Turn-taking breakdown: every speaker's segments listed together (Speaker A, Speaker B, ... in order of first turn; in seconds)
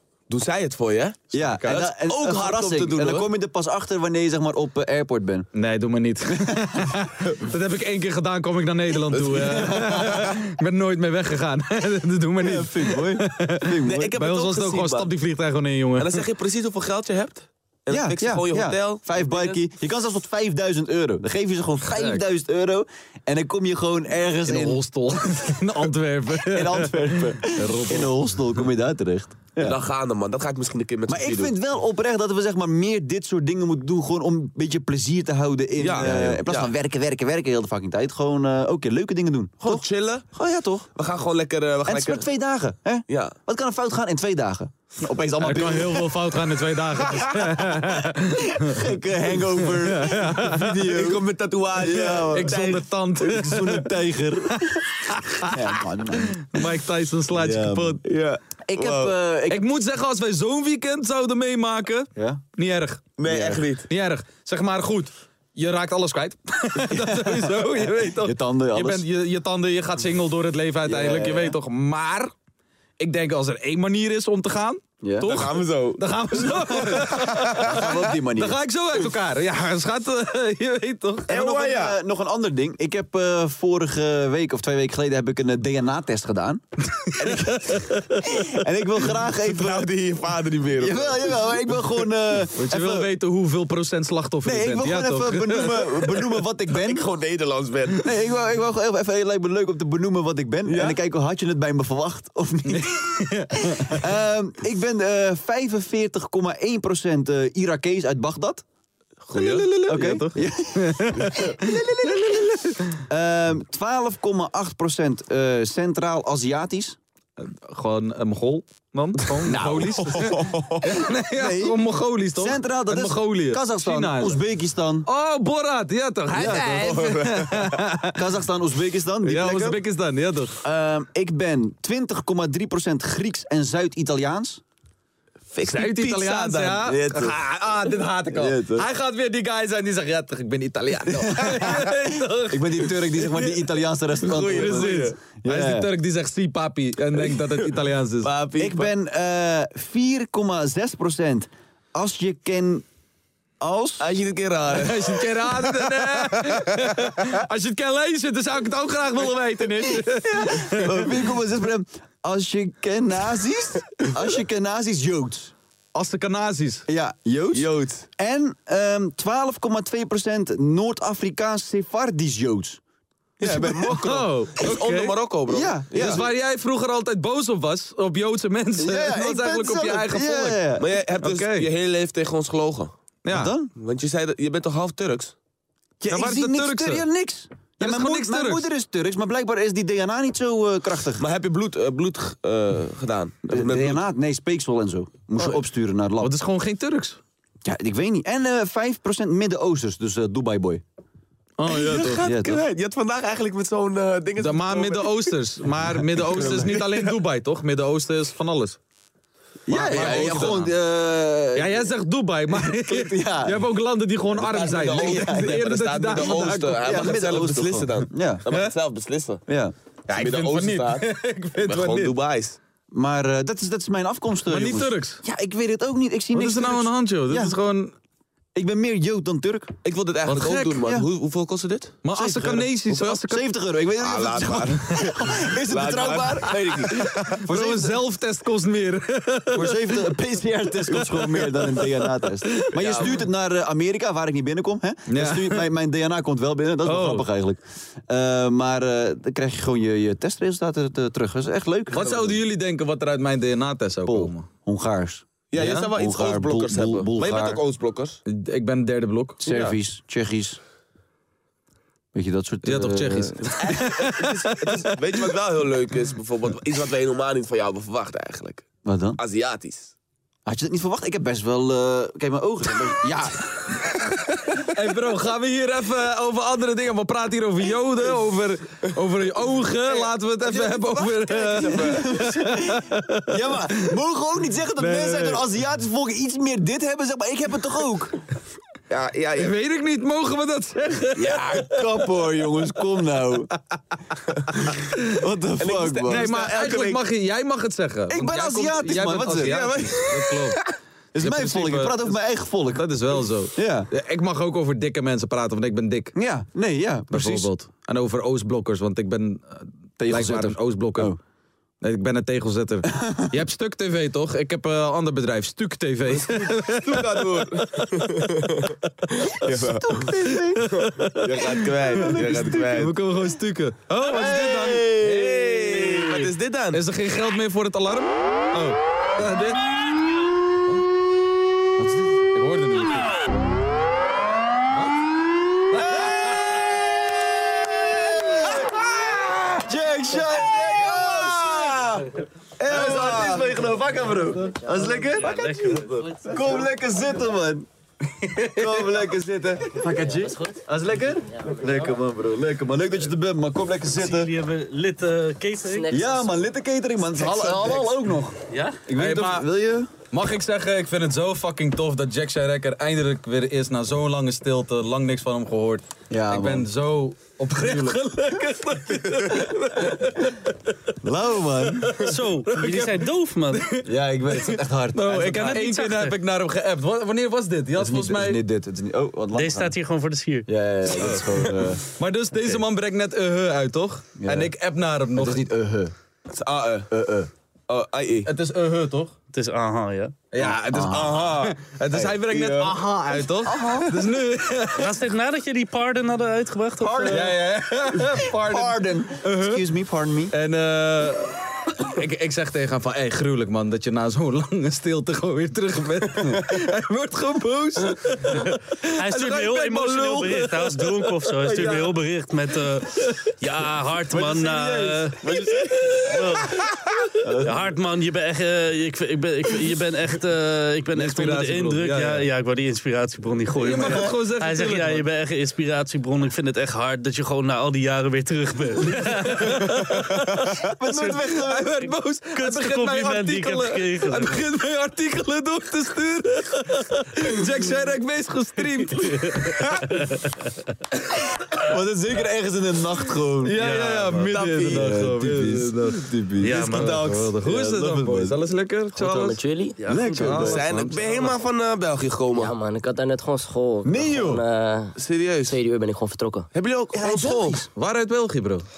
Speaker A: 0.3-3.3, 9.1-10.3, 13.9-15.1, 16.0-19.6, 29.6-31.6, 35.8-36.7, 39.6-40.3, 41.0-42.3, 43.1-43.4, 50.9-52.9, 58.0-59.1, 63.2-63.9, 75.3-77.8, 81.3-82.0, 89.5-91.6, 96.7-98.1, 100.7-101.0, 109.3-109.7, 120.1-120.9, 126.4-127.7, 135.5-137.2, 144.2-145.2, 148.2-148.9, 154.0-156.8, 167.5-168.1, 173.4-176.2, 180.8-182.9, 183.8-185.3, 191.2-194.0, 201.7-205.3, 205.9-207.1, 209.7-210.6, 214.3-219.4, 220.1-221.1, 221.6-222.6, 229.8-232.0, 234.0-237.3, 242.8-243.2, 255.5-258.2, 259.4-259.8, 263.6-268.7, 269.2-269.9, 279.9-282.3, 288.9-289.6, 295.6-297.0, 299.2-300.7, 316.1-320.1, 320.7-322.9, 325.0-326.8, 386.3-386.9, 387.7-388.3, 390.4-392.7, 415.3-416.0, 444.3-445.1, 450.2-452.5, 455.0-455.6, 456.5-457.6
Speaker B: 1.3-5.5, 6.3-6.9, 9.4-10.3, 12.4-14.2, 17.9-24.8, 26.4-29.8, 31.1-40.9, 41.9-46.2, 47.0-51.2, 51.8-52.6, 53.2-54.8, 55.4-56.5, 57.3-58.0, 58.7-59.6, 62.2-62.4, 63.3-63.6, 66.8-69.0, 70.9-71.6, 75.0-75.4, 77.6-78.6, 81.3-89.9, 90.8-93.1, 94.4-97.1, 98.0-108.6, 109.9-112.6, 113.1-117.0, 119.5-121.8, 122.3-125.1, 126.3-127.1, 128.2-129.8, 130.6-134.6, 136.8-137.4, 138.3-138.9, 141.1-145.9, 148.6-152.9, 153.6-154.1, 160.2-165.6, 166.9-172.8, 173.4-174.0, 175.5-176.2, 178.8-180.9, 183.3-183.7, 186.0-191.2, 193.5-196.3, 197.7-200.8, 202.2-202.6, 209.7-211.9, 212.5-213.6, 214.8-218.4, 219.5-219.7, 222.9-227.6, 228.6-229.7, 232.1-238.0, 239.5-252.3, 254.1-257.6, 259.4-260.6, 262.1-263.8, 268.9-269.2, 270.5-273.8, 281.6-288.2, 291.1-293.5, 295.1-296.4, 298.1-299.6, 301.1-302.9, 303.6-303.9, 306.1-307.5, 310.0-311.2, 312.9-313.3, 319.5-320.7, 321.9-323.0, 324.0-325.3, 331.8-332.1, 335.7-347.7, 348.5-354.3, 355.9-359.9, 366.1-366.7, 367.6-367.9, 371.0-372.1, 373.9-375.7, 377.8-379.7, 380.5-381.8, 384.2-384.5, 385.1-385.9, 386.9-387.3, 390.4-391.3, 391.9-392.5, 393.4-394.1, 396.8-400.3, 417.2-417.5, 430.6-431.9, 441.5-443.5, 444.7-448.4, 449.9-450.8, 453.8-454.4, 456.9-457.7
Speaker C: 1.4-1.8, 5.5-16.2, 21.9-22.2, 24.5-28.1, 45.4-48.8, 49.5-50.9, 52.3-53.9, 54.5-58.0, 59.5-63.1, 63.9-72.3, 73.0-81.4, 87.0-88.2, 92.6-96.2, 102.7-104.0, 109.3-113.0, 117.4-124.4, 125.1-128.2, 129.2-130.6, 135.7-142.9, 144.4-148.3, 154.7-161.1, 165.9-166.9, 173.8-175.2, 175.9-180.6, 181.2-181.7, 183.2-183.5, 186.1-187.0, 187.8-188.7, 196.2-197.2, 201.6-202.3, 204.4-208.8, 209.7-210.7, 211.5-217.1, 220.1-222.2, 224.5-225.2, 226.3-227.9, 230.3-230.8, 232.0-233.5, 237.0-240.0, 240.9-242.7, 245.1-245.6, 246.9-247.3, 251.9-254.5, 255.6-255.9, 258.3-259.4, 262.6-264.7, 274.5-283.4, 284.8-285.4, 289.4-291.8, 296.1-300.6, 301.2-302.1, 302.7-306.1, 307.1-311.2, 311.8-318.3, 320.6-321.2, 322.1-326.1, 326.7-329.6, 332.3-333.1, 335.8-336.4, 348.2-349.0, 358.9-359.5, 360.1-370.3, 371.9-373.0, 373.6-373.8, 374.9-378.4, 381.9-385.4, 388.2-389.1, 390.3-394.9, 397.1-399.6, 400.3-411.7, 414.2-414.9, 415.7-416.2, 420.9-422.3, 423.6-425.1, 429.4-430.4, 431.1-440.0, 443.4-449.4, 450.1-451.0, 457.7-458.6
Speaker D: 345.1-346.1, 354.0-355.9, 357.2-357.8, 358.5-358.8, 372.1-373.8, 375.3-376.2, 379.3-380.5, 389.3-390.2, 394.8-397.3, 409.0-415.3, 416.1-416.6, 417.4-429.8, 430.9-431.3, 432.4-434.4, 439.0-439.4, 440.0-440.3, 443.6-444.4, 446.4-447.0, 449.8-451.3
Speaker E: 349.7-350.6, 355.7-356.3, 448.9-449.8, 452.4-456.5